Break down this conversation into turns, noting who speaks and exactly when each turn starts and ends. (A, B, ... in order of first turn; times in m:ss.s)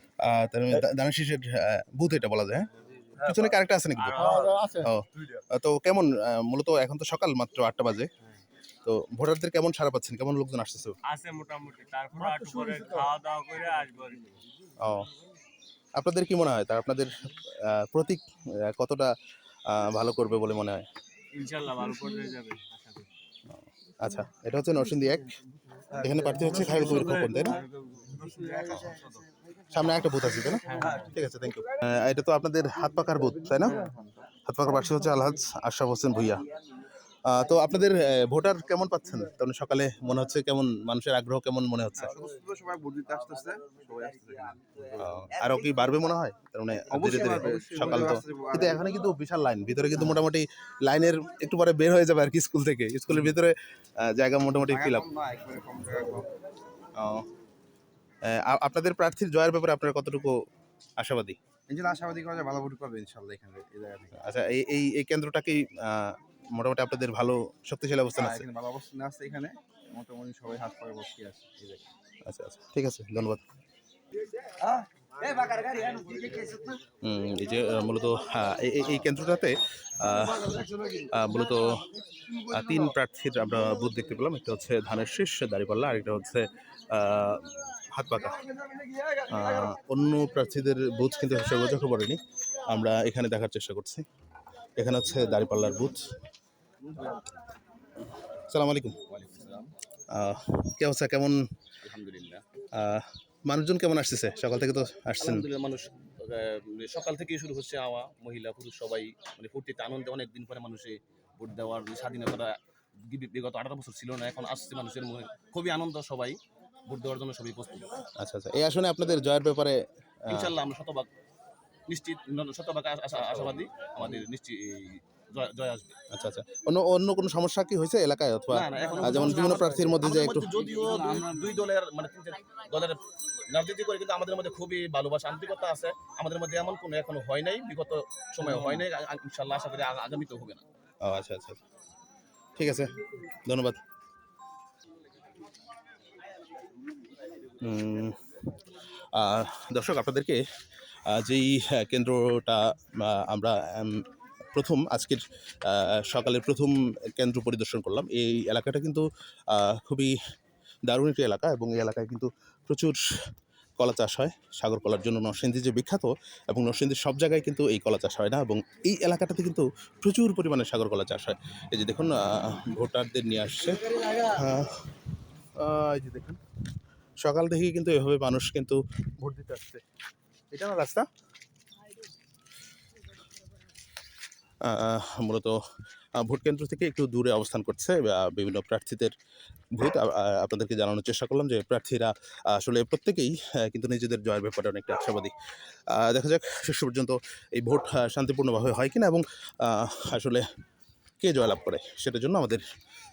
0:00.2-0:08.1 A
0:03.9-0:04.8 B
0:08.8-0:11.0 A
0:11.0-0:14.4 B
0:14.8-0:15.1 A
0:16.0-0:19.1 A
0:19.7-0:20.8 A
0:21.3-0:23.1 B
0:23.5-0:25.3 A
0:26.0-0:27.6 A
0:28.2-0:29.1 B
0:29.7-0:33.8 A
0:30.6-0:31.2 B
0:33.6-0:34.3 C
0:34.4-0:36.5 A
0:37.2-0:42.2 A
0:42.1-0:44.8 C
0:44.9-0:55.1 A
0:46.9-0:48.9 C
0:54.7-0:56.3 C
0:57.0-0:57.2 A
0:58.2-1:00.4 A
1:01.0-1:01.4 A
1:01.7-1:04.2 C
1:04.1-1:08.4 A
1:08.2-1:11.9 C
1:12.3-1:13.4 A
1:14.6-1:16.5 C
1:17.0-1:21.8 A
1:22.3-1:28.4 A
1:29.3-1:34.0 A
1:34.8-1:36.0 A
1:38.5-1:39.0 A
1:39.1-1:39.7 D
1:40.1-1:41.4 A
1:41.8-1:42.4 D
1:42.7-1:45.5 A
1:45.2-1:58.0 D
1:58.2-2:00.6 A
2:00.3-2:01.1 D
2:01.9-2:06.0 D
2:06.1-2:10.7 A
2:08.5-2:20.6 D
2:21.0-2:21.6 A
2:22.6-2:22.9 A
2:23.5-2:23.8 A
2:27.6-2:28.2 A
2:29.1-2:30.4 A
2:31.1-2:40.2 A
2:40.9-2:43.0 A
2:43.8-2:54.8 A
2:55.6-2:56.4 A
2:57.2-2:59.8 A
3:00.5-3:01.1 A
3:04.6-3:05.6 A
3:06.2-3:09.1 A
3:09.8-3:15.3 A
3:15.9-3:20.4 A
3:21.2-3:22.6 A